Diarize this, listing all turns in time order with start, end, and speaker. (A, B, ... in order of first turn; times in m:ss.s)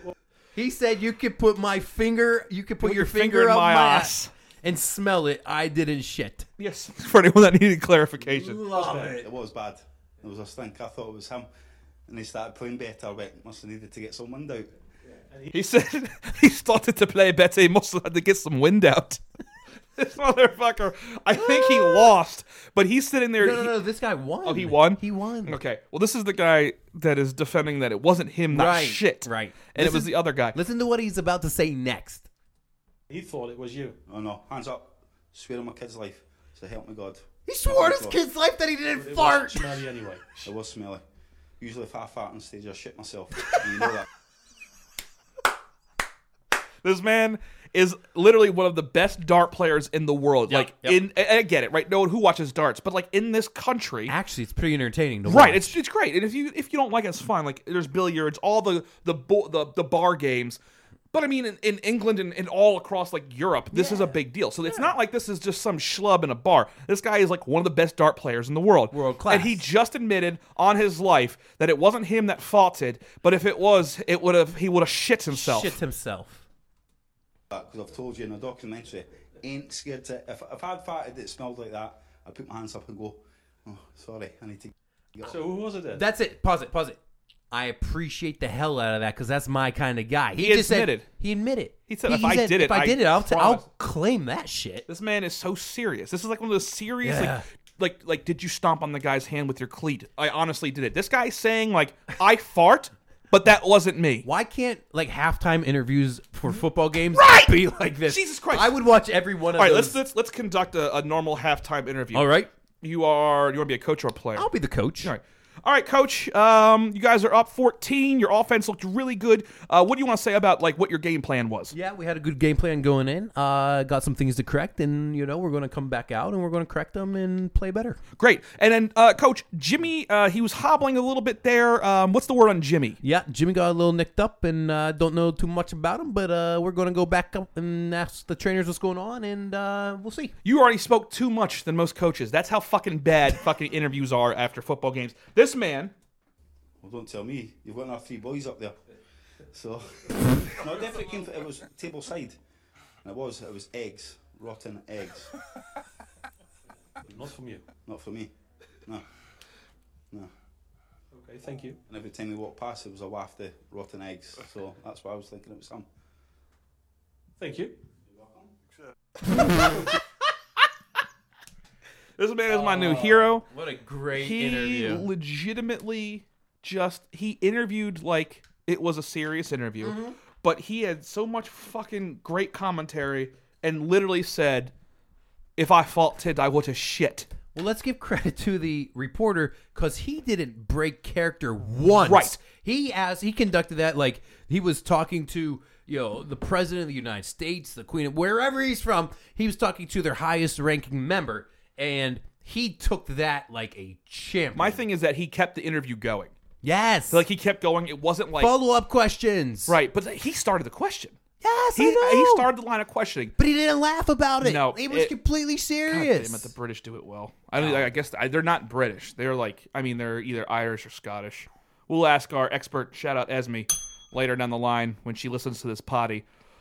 0:00.5-0:06.5 A
0:02.8-0:04.3 B
0:06.6-0:08.7 B
0:08.2-0:09.3 A
0:08.7-0:09.2 C
0:08.8-0:11.5 D
0:12.1-0:14.7 D
0:15.5-0:19.2 B
0:19.9-0:23.8 B
0:21.3-0:22.1 A
0:23.4-0:25.6 A
0:24.4-0:30.6 B
0:28.5-0:32.3 A
0:33.1-0:34.0 C
0:34.1-0:38.2 D
0:37.4-0:39.8 A
0:38.9-0:40.4 C
0:40.4-0:41.0 D
0:41.6-0:44.1 D
0:46.8-0:54.1 B
0:50.5-0:51.0 A
0:54.1-0:55.7 A
0:55.2-1:00.6 B
1:01.1-1:15.8 B
1:03.7-1:04.9 A
1:08.9-1:09.6 A
1:15.3-1:16.4 A
1:17.5-1:25.4 D
1:25.2-1:26.0 C
1:25.9-1:27.0 A
1:27.5-1:34.8 A
1:30.4-1:31.0 B
1:31.9-1:33.6 B
1:34.9-1:44.3 B
1:37.0-1:37.4 A
1:44.2-1:50.0 A
1:47.1-1:48.8 B
1:49.6-1:54.5 B
1:52.1-1:52.5 A
1:54.4-1:55.1 A
1:55.0-2:01.7 B
2:01.7-2:08.0 A
2:08.2-2:13.0 B
2:13.0-2:20.3 A
2:20.4-2:25.9 B
2:26.8-2:28.8 D
2:29.5-2:32.4 D
2:33.0-2:35.3 D
2:37.1-2:37.6 C
2:37.8-2:38.3 D
2:41.1-2:41.8 C
2:41.9-2:45.9 D
2:47.4-2:47.8 C
2:48.1-2:48.5 D
2:49.4-2:49.9 B
2:52.2-2:53.4 B
2:52.5-2:55.1 A
2:54.1-3:04.7 B
2:59.8-3:00.2 A
3:05.6-3:07.3 B
3:07.5-3:24.8 A
3:12.0-3:12.4 B
3:24.5-3:26.3 B
3:26.6-3:27.2 A
3:27.1-3:28.5 B
3:28.4-3:29.8 A
3:29.7-3:31.2 B
3:31.4-3:32.5 A
3:31.7-3:33.3 B
3:33.4-3:36.5 A
3:34.4-3:35.1 B
3:35.9-3:46.2 B
3:37.6-3:37.9 A